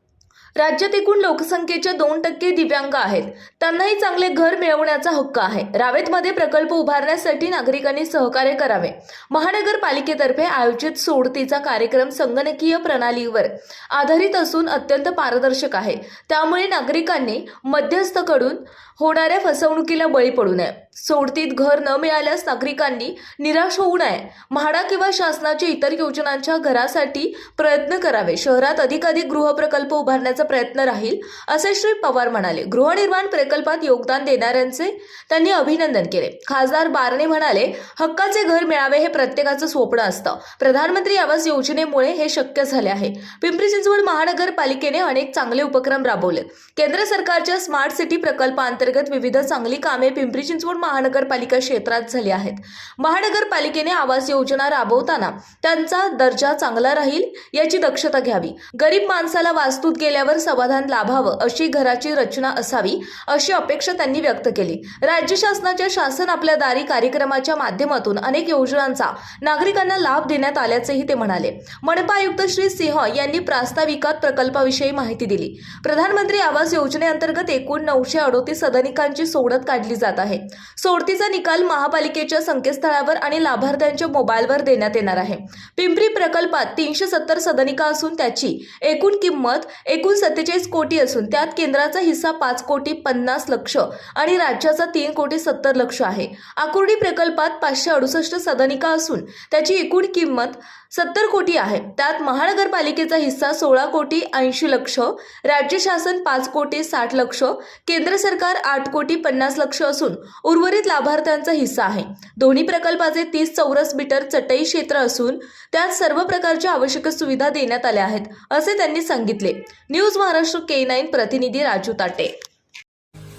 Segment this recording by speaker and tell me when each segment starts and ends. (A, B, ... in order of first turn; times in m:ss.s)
0:00.6-2:02.3 A